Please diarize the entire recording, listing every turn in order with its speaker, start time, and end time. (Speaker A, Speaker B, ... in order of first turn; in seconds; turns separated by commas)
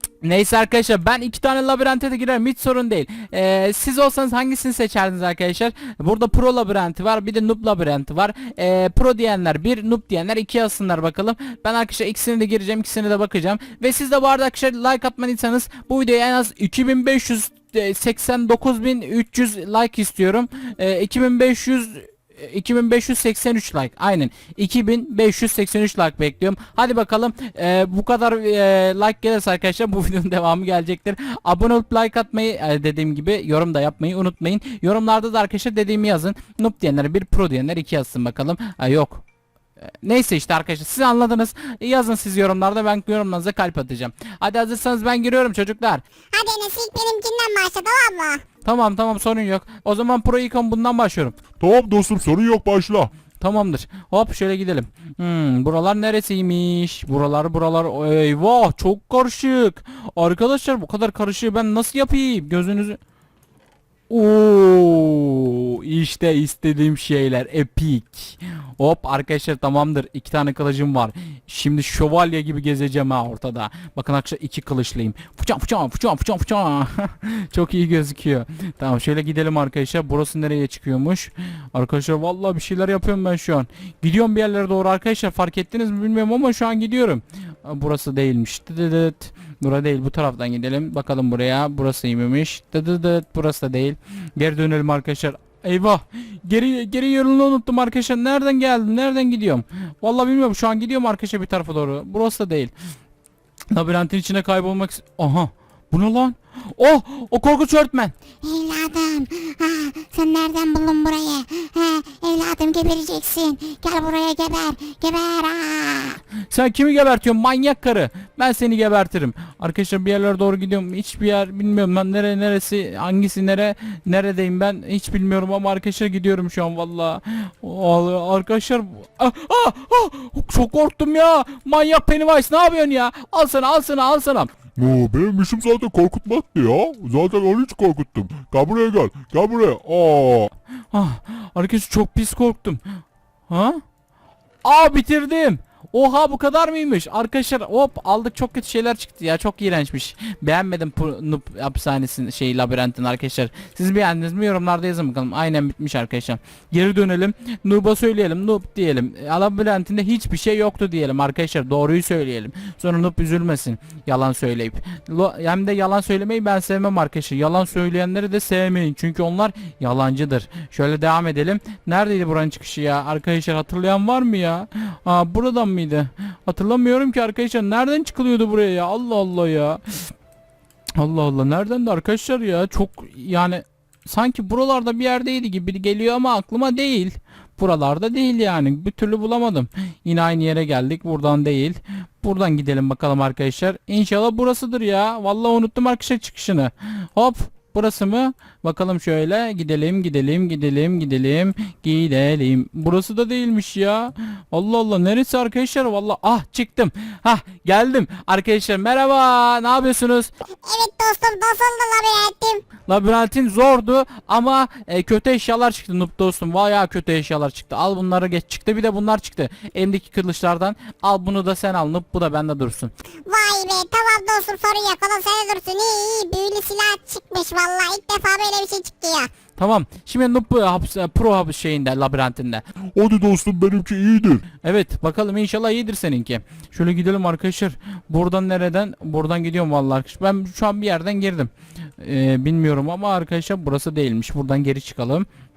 Speaker A: 0.2-39.2, Speaker A: 40.0-46.0, Speaker B: 46.3-48.4, Speaker A: 48.6-51.4, Speaker C: 51.6-53.1, Speaker A: 53.4-63.0, Speaker A: 64.1-102.7, Speaker A: 103.7-108.1, Speaker B: 108.4-116.2, Speaker A: 116.5-134.5, Speaker C: 134.8-140.5, Speaker A: 140.9-143.0, Speaker A: 143.5-143.8, Speaker A: 144.6-180.1, Speaker A: 181.0-210.3, Speaker B: 210.6-212.6, Speaker A: 212.9-222.9, Speaker B: 223.3-229.3, Speaker A: 229.6-232.7, Speaker C: 232.9-234.4, Speaker A: 234.6-245.3